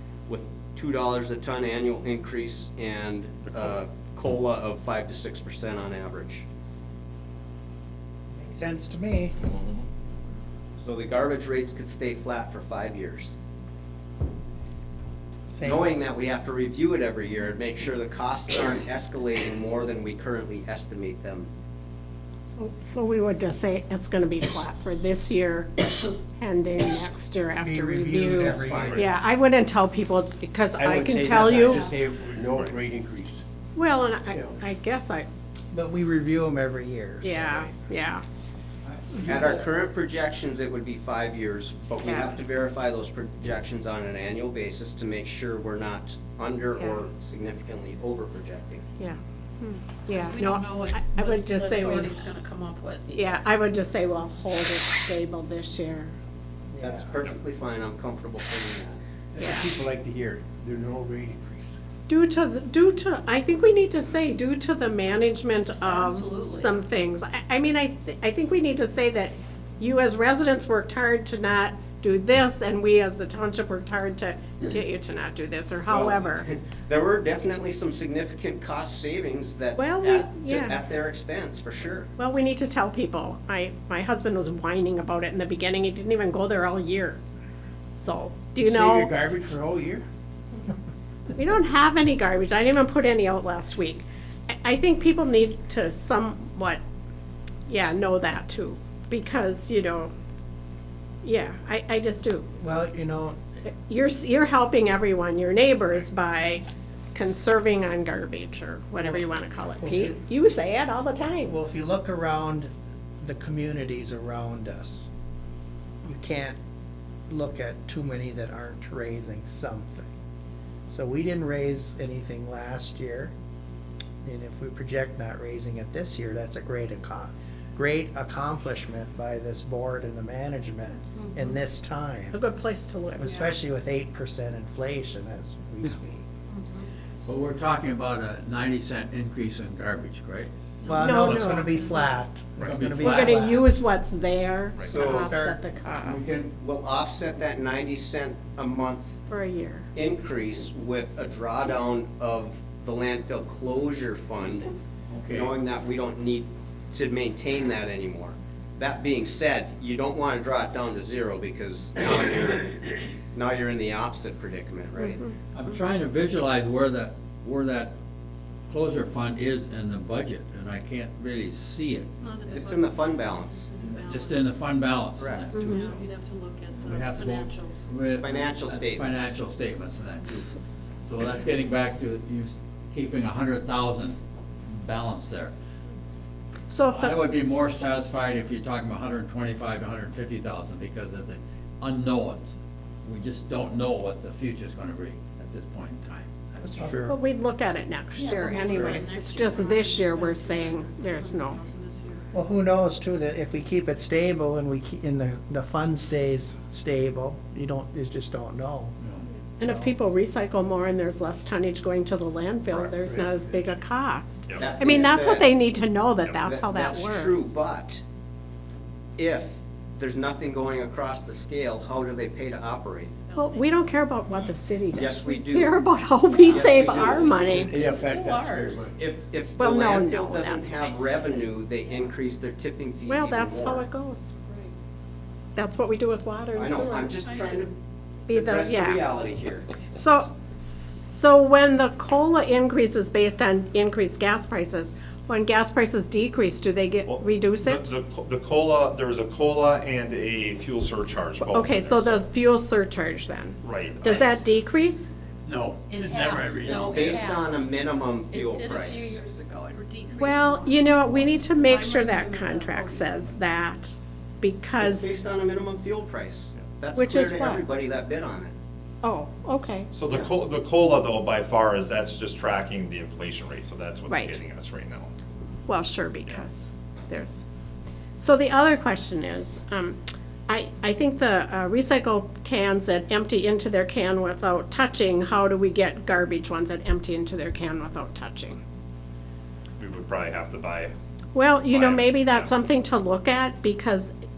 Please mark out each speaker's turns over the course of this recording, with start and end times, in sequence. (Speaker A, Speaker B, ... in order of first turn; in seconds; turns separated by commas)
Speaker A: 0.3-6.4, Speaker B: 3.5-3.8, Speaker C: 8.3-9.3, Speaker B: 9.4-9.8, Speaker A: 10.8-13.4, Speaker C: 15.5-15.9, Speaker A: 15.6-21.5, Speaker D: 22.6-31.9, Speaker C: 27.6-29.0, Speaker A: 28.4-29.1, Speaker B: 28.6-29.0, Speaker E: 30.8-33.4, Speaker B: 31.8-32.8, Speaker D: 33.8-35.3, Speaker E: 34.3-34.6, Speaker C: 35.7-37.6, Speaker D: 37.2-38.2, Speaker A: 39.2-48.8, Speaker D: 42.0-42.3, Speaker D: 49.0-52.3, Speaker F: 50.1-53.4, Speaker D: 53.1-56.1, Speaker C: 56.7-57.1, Speaker A: 56.8-59.0, Speaker E: 59.3-61.7, Speaker D: 59.4-59.7, Speaker D: 62.1-76.4, Speaker F: 65.8-66.7, Speaker A: 75.9-82.1, Speaker D: 79.8-80.8, Speaker D: 82.2-87.2, Speaker D: 88.0-89.1, Speaker E: 88.6-90.0, Speaker D: 91.3-96.8, Speaker D: 97.7-100.1, Speaker D: 101.2-102.5, Speaker C: 102.6-103.4, Speaker D: 103.8-111.5, Speaker C: 109.8-110.2, Speaker C: 111.5-115.1, Speaker C: 116.0-116.6, Speaker C: 117.3-120.1, Speaker C: 120.9-123.3, Speaker C: 124.2-132.4, Speaker F: 131.2-131.5, Speaker D: 132.3-133.3, Speaker C: 133.1-136.3, Speaker F: 133.3-133.6, Speaker F: 136.5-136.9, Speaker G: 137.2-140.5, Speaker F: 140.8-141.1, Speaker C: 140.8-143.7, Speaker D: 140.9-141.7, Speaker G: 141.1-141.8, Speaker F: 141.6-142.1, Speaker G: 142.6-143.4, Speaker D: 143.0-146.2, Speaker B: 144.8-145.0, Speaker C: 144.9-145.6, Speaker A: 144.9-145.3, Speaker G: 146.0-146.5, Speaker A: 146.5-149.2, Speaker D: 149.3-149.9, Speaker A: 149.9-154.7, Speaker G: 155.1-155.5, Speaker A: 155.3-165.2, Speaker D: 164.9-165.3, Speaker G: 165.5-167.9, Speaker G: 168.7-172.1, Speaker F: 172.2-174.4, Speaker A: 172.5-173.7, Speaker G: 173.8-176.1, Speaker A: 175.2-175.5, Speaker D: 175.6-175.8, Speaker F: 175.6-177.8, Speaker G: 176.8-185.5, Speaker A: 178.2-179.4, Speaker D: 186.7-187.2, Speaker G: 186.9-196.9, Speaker C: 196.6-197.1, Speaker D: 197.1-201.6, Speaker F: 198.1-202.3, Speaker A: 198.6-199.0, Speaker C: 202.3-208.9, Speaker D: 209.6-217.5, Speaker C: 209.6-209.9, Speaker E: 213.0-213.7, Speaker B: 214.5-214.7, Speaker A: 214.6-215.5, Speaker A: 216.4-218.0, Speaker A: 219.2-223.1, Speaker F: 223.2-224.0, Speaker D: 223.3-227.8, Speaker A: 224.9-225.7, Speaker A: 226.4-227.7, Speaker E: 226.5-228.9, Speaker F: 227.7-228.9, Speaker A: 228.9-233.8, Speaker D: 229.6-231.1, Speaker D: 233.1-234.3, Speaker D: 235.5-237.1, Speaker A: 236.5-237.7, Speaker F: 236.8-237.7, Speaker D: 238.3-239.0, Speaker A: 238.3-239.9, Speaker D: 239.9-247.9, Speaker B: 247.1-252.2, Speaker D: 251.5-255.1, Speaker B: 253.6-254.3, Speaker G: 255.4-257.4, Speaker F: 255.9-257.7, Speaker A: 256.6-259.2, Speaker F: 258.2-263.4, Speaker D: 260.1-265.1, Speaker A: 264.8-268.5, Speaker D: 266.9-267.7, Speaker D: 269.0-269.9, Speaker B: 269.9-275.1, Speaker D: 274.1-274.4, Speaker D: 275.6-277.4, Speaker D: 278.2-288.6, Speaker B: 289.8-290.9, Speaker D: 291.3-294.1, Speaker B: 291.7-292.5